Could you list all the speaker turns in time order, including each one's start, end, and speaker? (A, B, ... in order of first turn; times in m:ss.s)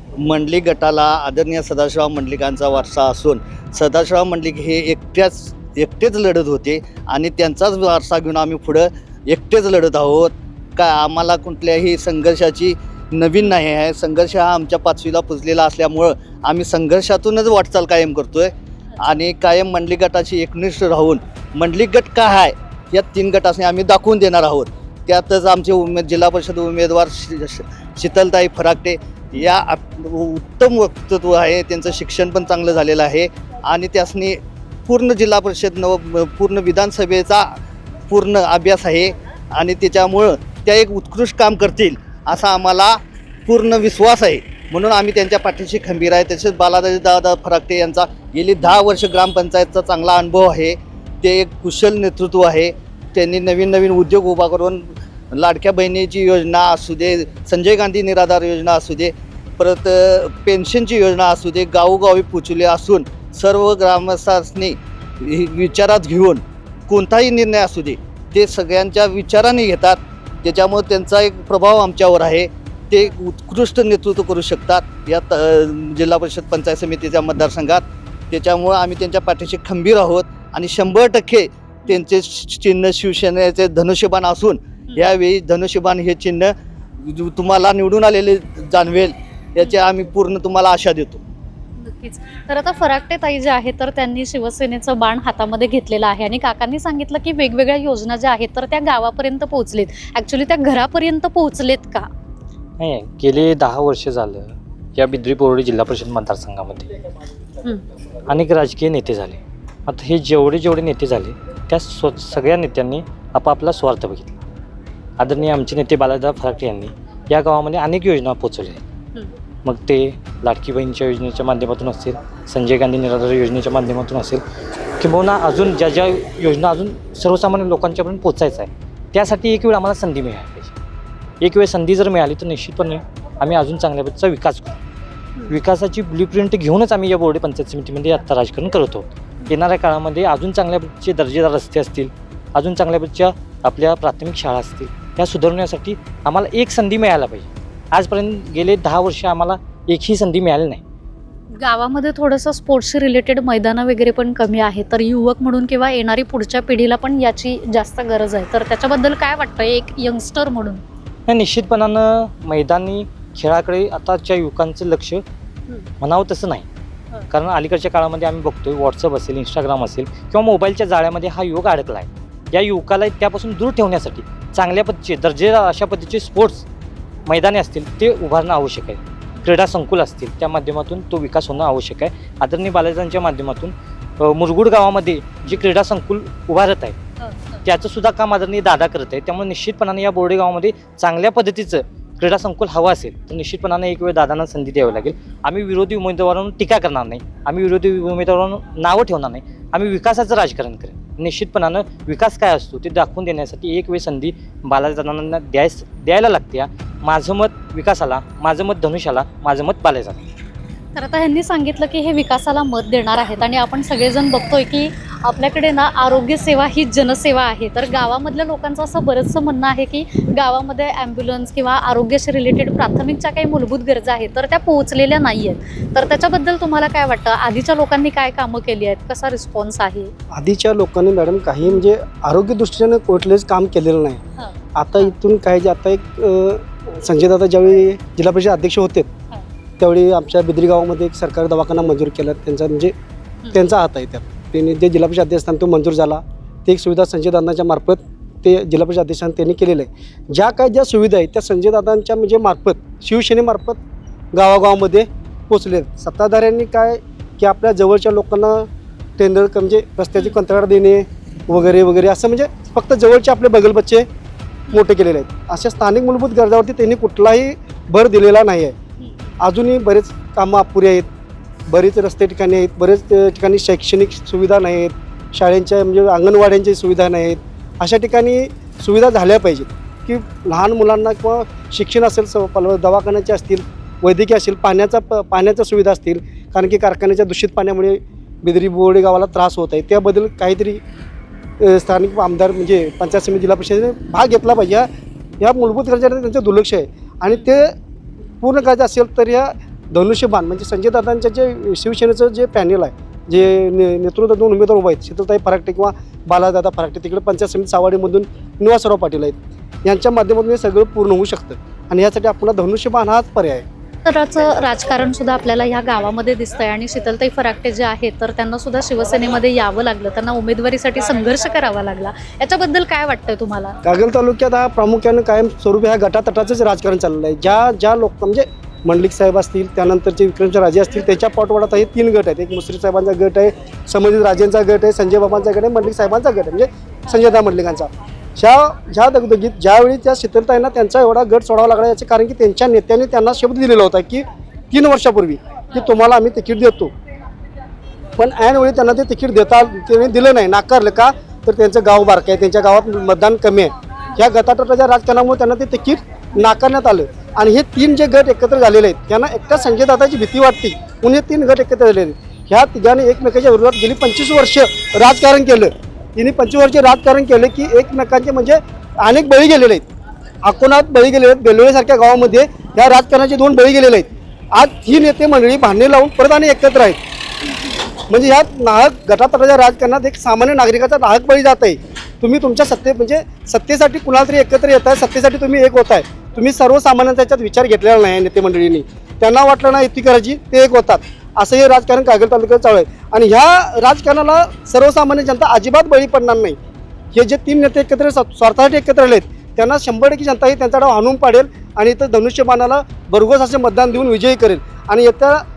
0:00.2-0:37.6 A
0:38.1-1:31.2 A
1:31.8-1:42.1 B
1:42.8-1:46.9 C
1:48.3-1:54.4 C
1:55.2-1:58.8 C
1:59.6-2:04.4 C
2:05.0-2:10.7 C
2:11.4-2:14.7 C
2:15.5-2:30.8 C
2:31.6-2:40.8 B
2:41.3-2:45.2 C
2:46.0-2:46.6 C
2:47.3-2:56.6 C
2:57.3-3:07.0 C
3:07.2-3:07.6 B
3:07.6-3:30.2 C
3:30.9-3:50.1 B
3:50.3-3:54.2 D
3:54.4-3:55.2 B
3:54.7-3:59.1 D
3:59.8-4:02.9 D
4:03.5-4:13.8 D
4:14.3-4:18.7 D
4:19.2-4:24.0 D
4:24.7-4:28.7 D
4:29.0-4:29.3 B
4:29.4-4:31.0 D
4:31.7-4:50.8 D
4:51.6-4:54.9 D
4:55.4-4:57.7 D
4:58.4-5:13.6 D
5:14.0-5:23.8 B
5:23.8-5:46.9 D
5:48.2-6:09.8 D
6:10.4-6:17.0 D
6:18.1-6:36.6 D
6:37.1-6:45.4 D